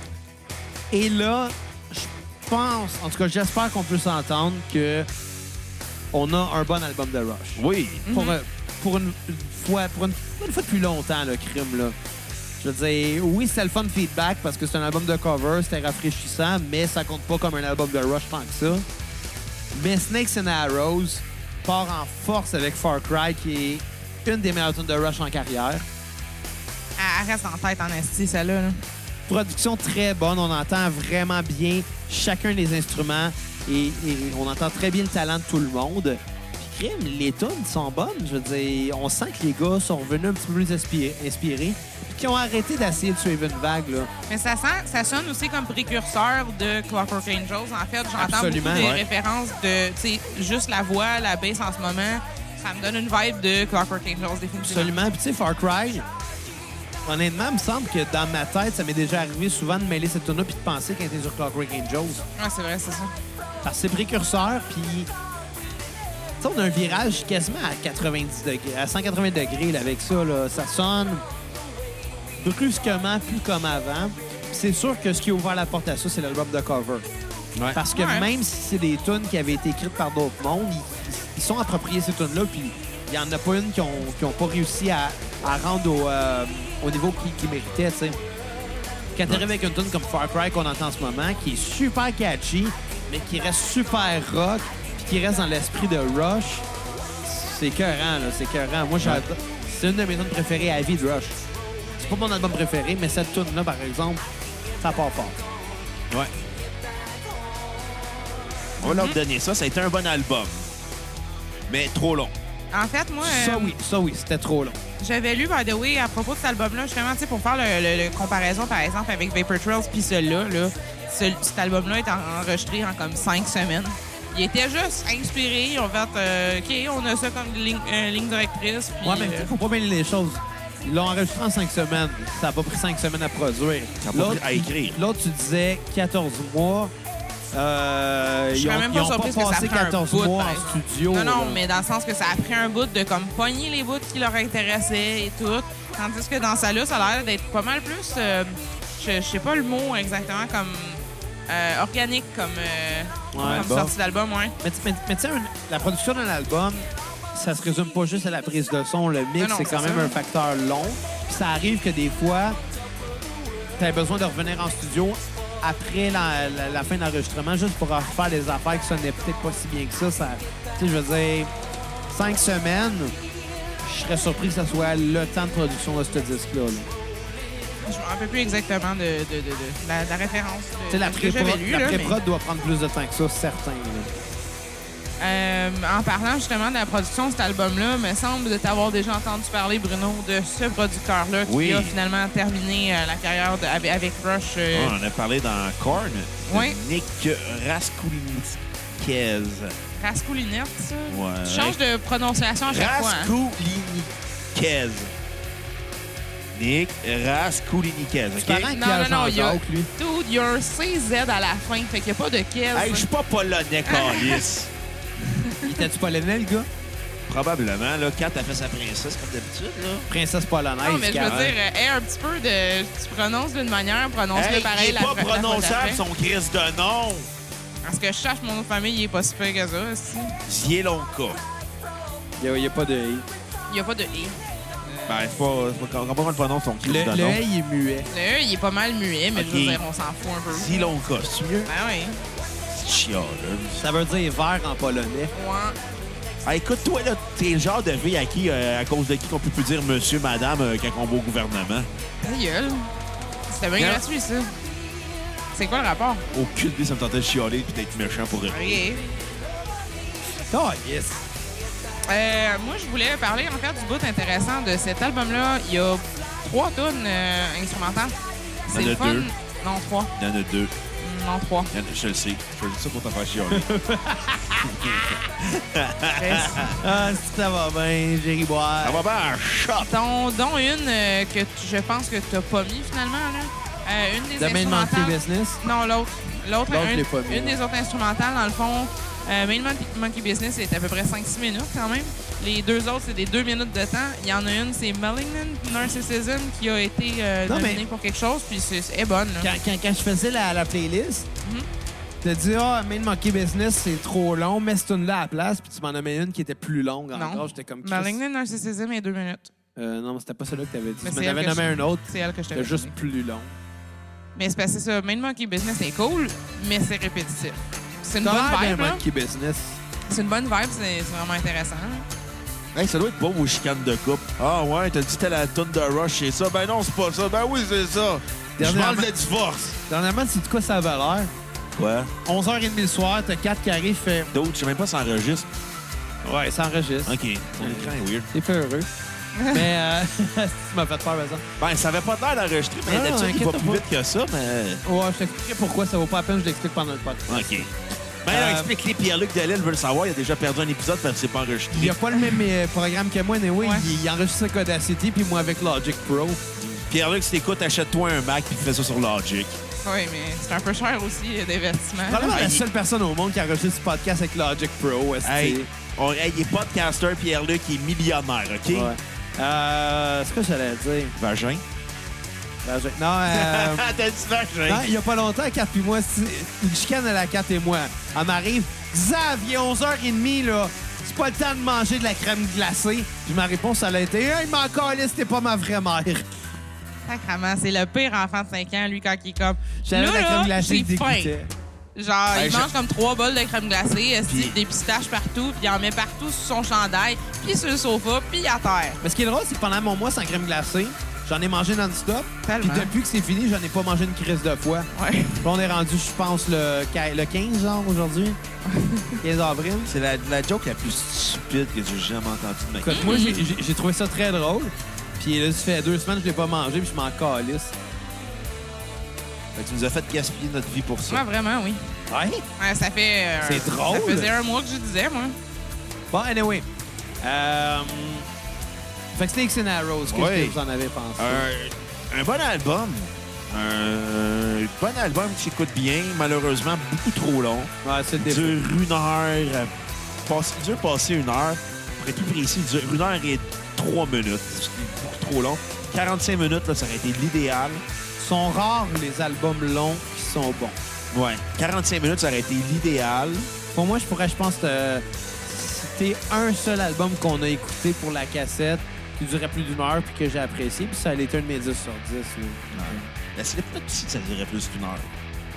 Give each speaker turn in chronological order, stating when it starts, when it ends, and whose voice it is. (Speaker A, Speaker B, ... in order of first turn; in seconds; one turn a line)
Speaker A: 0.9-5.1
Speaker A: 6.1-11.9
Speaker B: 7.5-8.0
Speaker C: 8.1-8.3
Speaker A: 12.6-18.9
Speaker A: 19.7-25.8
Speaker C: 27.0-28.8
Speaker A: 29.3-44.1
Speaker C: 44.3-54.9
Speaker A: 48.2-48.9
Speaker B: 48.7-49.0
Speaker A: 54.6-56.0
Speaker A: 57.0-62.2
Speaker C: 62.4-63.1
Speaker A: 63.6-65.1
Speaker A: 66.4-71.2
Speaker A: 72.4-77.1
Speaker A: 77.7-88.2
Speaker C: 77.9-78.3
Speaker A: 89.1-96.7
Speaker A: 97.2-101.4
Speaker A: 102.0-104.2
Speaker A: 104.8-105.4
Speaker B: 108.8-110.7
Speaker C: 108.8-109.2
Speaker B: 111.7-112.3
Speaker C: 112.7-113.8
Speaker A: 113.2-114.8
Speaker C: 115.0-129.5
Speaker A: 129.0-136.9
Speaker B: 134.0-135.0
Speaker A: 137.5-141.6
Speaker C: 138.5-154.5
Speaker A: 153.3-153.9
Speaker B: 153.4-153.9
Speaker A: 154.6-162.6
Speaker C: 159.4-160.2
Speaker A: 163.8-171.5
Speaker A: 172.1-173.1
Speaker A: 173.8-176.9
Speaker C: 177.8-182.2
Speaker A: 180.9-184.1
Speaker C: 185.2-194.9
Speaker B: 191.4-191.9
Speaker B: 194.7-199.7
Speaker C: 196.5-196.8
Speaker C: 199.9-203.3
Speaker B: 201.1-201.8
Speaker B: 202.7-205.1
Speaker B: 206.5-208.7
Speaker A: 208.4-209.9
Speaker C: 208.7-213.1
Speaker B: 212.7-214.7
Speaker C: 213.8-214.4
Speaker C: 215.2-215.8
Speaker A: 215.6-216.7
Speaker B: 217.3-220.1
Speaker A: 220.1-221.5
Speaker C: 220.8-226.0
Speaker B: 221.2-221.5
Speaker B: 224.3-227.3
Speaker C: 227.8-230.4
Speaker B: 230.5-231.4
Speaker A: 232.4-233.3
Speaker C: 233.7-235.3
Speaker B: 235.1-237.4
Speaker A: 236.8-238.1
Speaker C: 238.1-240.9
Speaker B: 239.3-239.8
Speaker B: 240.5-241.7
Speaker C: 241.7-242.2
Speaker B: 242.7-243.8
Speaker A: 243.8-245.3
Speaker C: 245.3-245.8
Speaker B: 246.4-251.9
Speaker C: 252.2-252.9
Speaker C: 253.5-254.5
Speaker B: 253.8-254.0
Speaker C: 255.5-256.2
Speaker B: 256.3-258.8
Speaker C: 258.5-259.0
Speaker A: 260.5-261.2
Speaker C: 262.1-268.1
Speaker C: 268.7-270.1
Speaker B: 268.7-269.3
Speaker B: 270.1-270.7
Speaker C: 271.0-271.7
Speaker B: 271.7-273.7
Speaker A: 273.5-275.1
Speaker B: 274.6-276.8
Speaker C: 276.2-276.7
Speaker A: 276.7-279.0
Speaker B: 278.8-280.0
Speaker C: 279.8-299.5
Speaker A: 284.4-285.6
Speaker A: 286.7-287.6
Speaker A: 297.4-297.8
Speaker A: 299.4-301.3
Speaker A: 302.2-308.2
Speaker C: 307.1-309.5
Speaker A: 309.8-313.5
Speaker C: 311.0-312.9
Speaker C: 314.4-319.0
Speaker A: 318.2-319.8
Speaker C: 320.1-322.1
Speaker B: 322.7-329.8
Speaker A: 328.6-329.1
Speaker A: 329.9-331.3
Speaker B: 331.7-332.1
Speaker A: 332.2-334.3
Speaker B: 334.3-335.5
Speaker A: 336.2-338.9
Speaker B: 337.1-338.3
Speaker A: 339.5-341.4
Speaker B: 341.6-344.8
Speaker A: 342.9-343.8
Speaker A: 344.8-347.7
Speaker B: 347.3-347.7
Speaker B: 348.2-352.0
Speaker A: 348.3-348.7
Speaker A: 351.7-356.4
Speaker C: 353.6-354.0
Speaker B: 356.6-359.6
Speaker C: 359.8-362.4
Speaker A: 362.1-365.7
Speaker B: 362.2-362.6
Speaker B: 365.2-368.9
Speaker A: 368.7-371.1
Speaker B: 371.1-371.6
Speaker A: 372.6-373.9
Speaker B: 373.3-374.9
Speaker A: 374.6-386.3
Speaker C: 387.0-391.3
Speaker A: 389.9-391.5
Speaker C: 391.9-399.0
Speaker B: 392.3-392.7
Speaker B: 394.3-394.6
Speaker A: 399.0-404.9
Speaker C: 402.4-402.9
Speaker C: 404.9-405.4
Speaker A: 405.4-408.4
Speaker C: 408.6-409.2
Speaker A: 409.2-409.9
Speaker B: 409.9-413.4
Speaker A: 412.8-417.7
Speaker C: 412.9-413.4
Speaker B: 419.5-421.2
Speaker C: 421.1-421.8
Speaker A: 422.1-422.4
Speaker C: 422.6-425.4
Speaker A: 423.4-424.3
Speaker A: 426.1-426.6
Speaker A: 427.2-428.3
Speaker A: 429.1-431.4
Speaker B: 430.1-430.6
Speaker B: 431.2-439.7
Speaker A: 437.8-438.6
Speaker B: 440.2-447.8
Speaker A: 448.2-450.8
Speaker B: 451.1-453.5
Speaker A: 453.7-463.1
Speaker B: 462.7-465.1